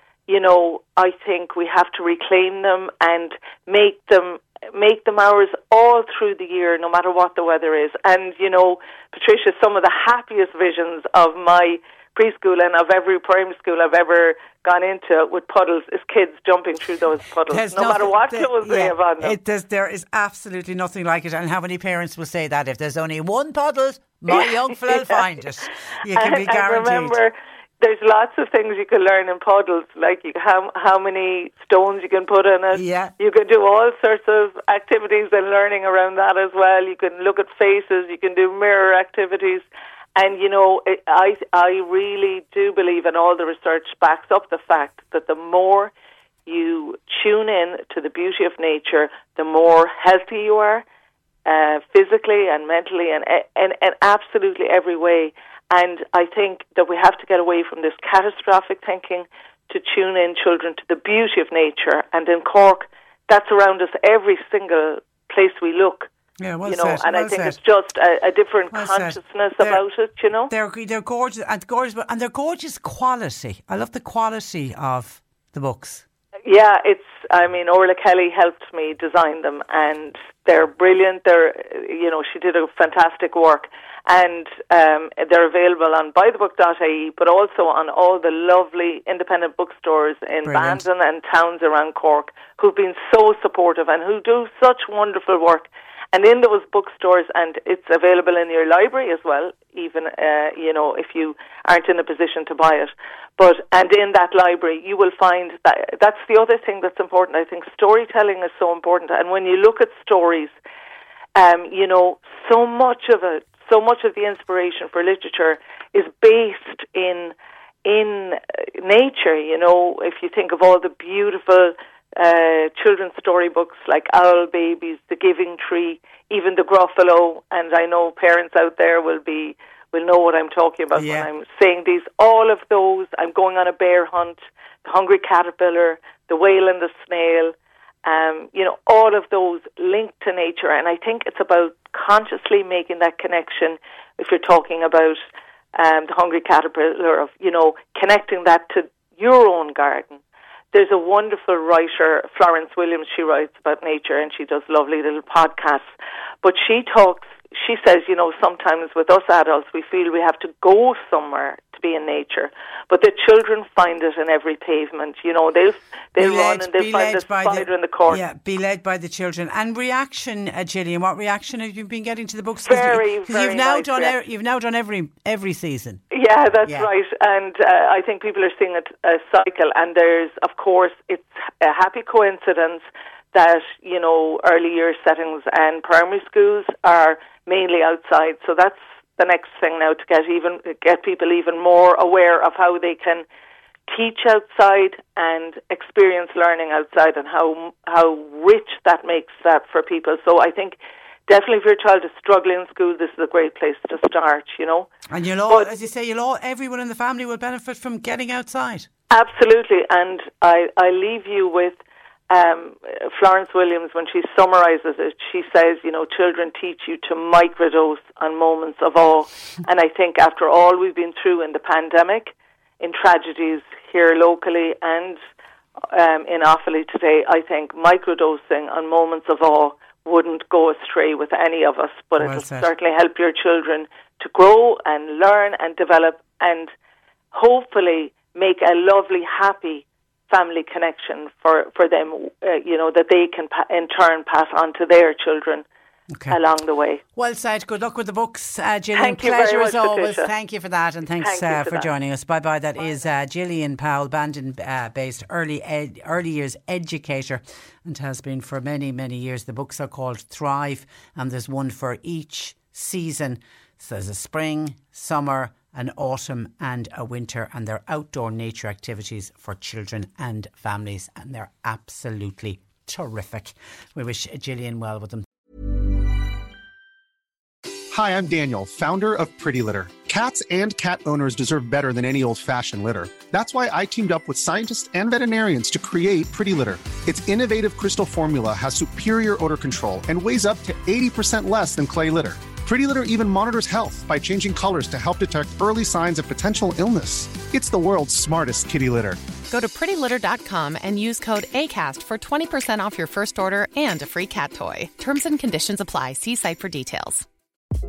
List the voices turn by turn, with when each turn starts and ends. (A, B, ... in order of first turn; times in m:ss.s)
0:00.3-0:19.4 A
0:17.5-0:27.2 B
0:24.3-0:25.2 A
0:26.1-0:45.9 A
0:32.7-0:33.1 B
0:46.4-0:50.8 A
0:51.4-1:06.1 A
1:06.4-1:07.6 B
1:06.6-1:10.5 A
1:08.7-1:09.8 B
1:10.5-1:16.0 B
1:16.4-1:50.5 A
1:30.4-1:30.8 B
1:51.4-2:17.5 A
2:10.9-2:11.3 B
2:18.0-2:25.2 A
2:25.8-2:30.2 A
2:30.7-2:35.9 A
2:36.4-2:48.2 A
2:46.2-2:56.0 B
2:52.6-2:54.2 A
2:56.1-3:13.2 A
2:56.6-2:56.9 B
3:13.9-3:24.9 A
3:25.1-3:28.9 B
3:29.1-3:31.8 A
3:32.3-3:45.2 A
3:45.9-3:56.7 A
3:52.2-3:52.7 B
3:57.3-4:05.6 A
4:06.1-4:06.4 B
4:06.3-4:07.0 A
4:07.2-4:35.2 B
4:08.9-4:10.3 A
4:11.2-4:11.9 A
4:37.9-4:59.2 C
4:59.5-5:07.2 D